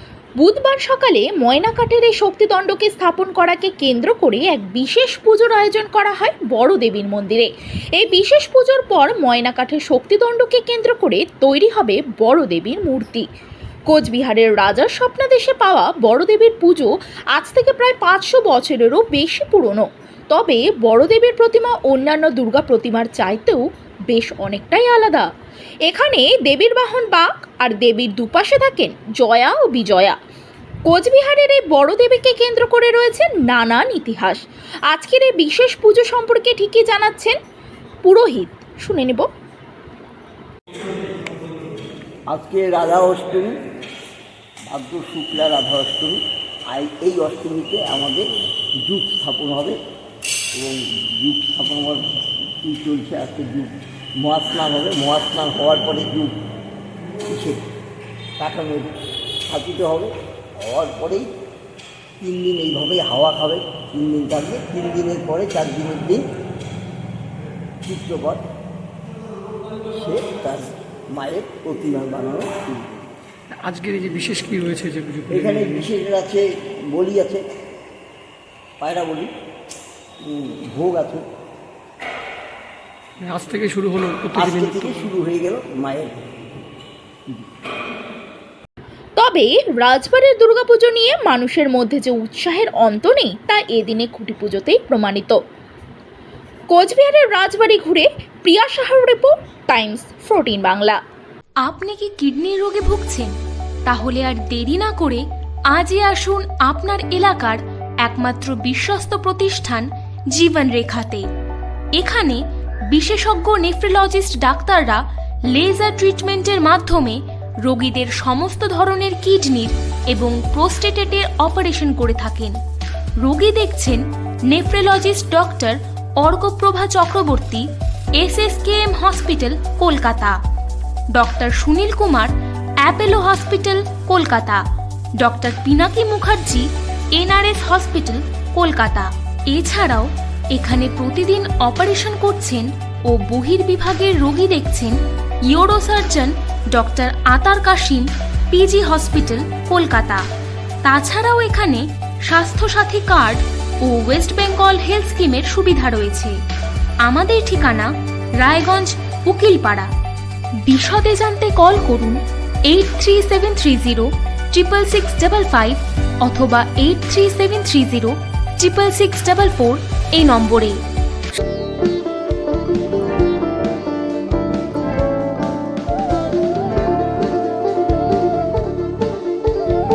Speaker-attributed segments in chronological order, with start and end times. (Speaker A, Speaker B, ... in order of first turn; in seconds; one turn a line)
Speaker A: 0.4-13.2
Speaker A: 13.9-25.3
Speaker A: 25.9-30.1
Speaker A: 30.9-37.4
Speaker A: 38.0-39.3
Speaker B: 42.3-43.6
Speaker B: 44.7-48.3
Speaker B: 48.8-49.8
Speaker B: 50.5-56.4
Speaker B: 57.2-57.6
Speaker B: 58.4-58.9
Speaker B: 59.5-61.3
Speaker B: 62.2-66.2
Speaker B: 67.8-68.4
Speaker B: 69.9-72.9
Speaker C: 73.5-75.8
Speaker B: 75.3-77.4
Speaker B: 78.8-79.3
Speaker B: 80.2-81.2
Speaker C: 83.2-85.0
Speaker B: 84.3-86.3
Speaker A: 89.2-95.4
Speaker A: 96.7-101.0
Speaker D: 101.6-103.3
Speaker D: 103.8-111.3
Speaker D: 111.9-122.6
Speaker D: 123.2-130.4
Speaker D: 131.1-134.6
Speaker D: 135.2-145.0
Speaker D: 145.5-150.2
Speaker D: 150.8-156.4
Speaker D: 157.0-159.9
Speaker D: 160.7-170.8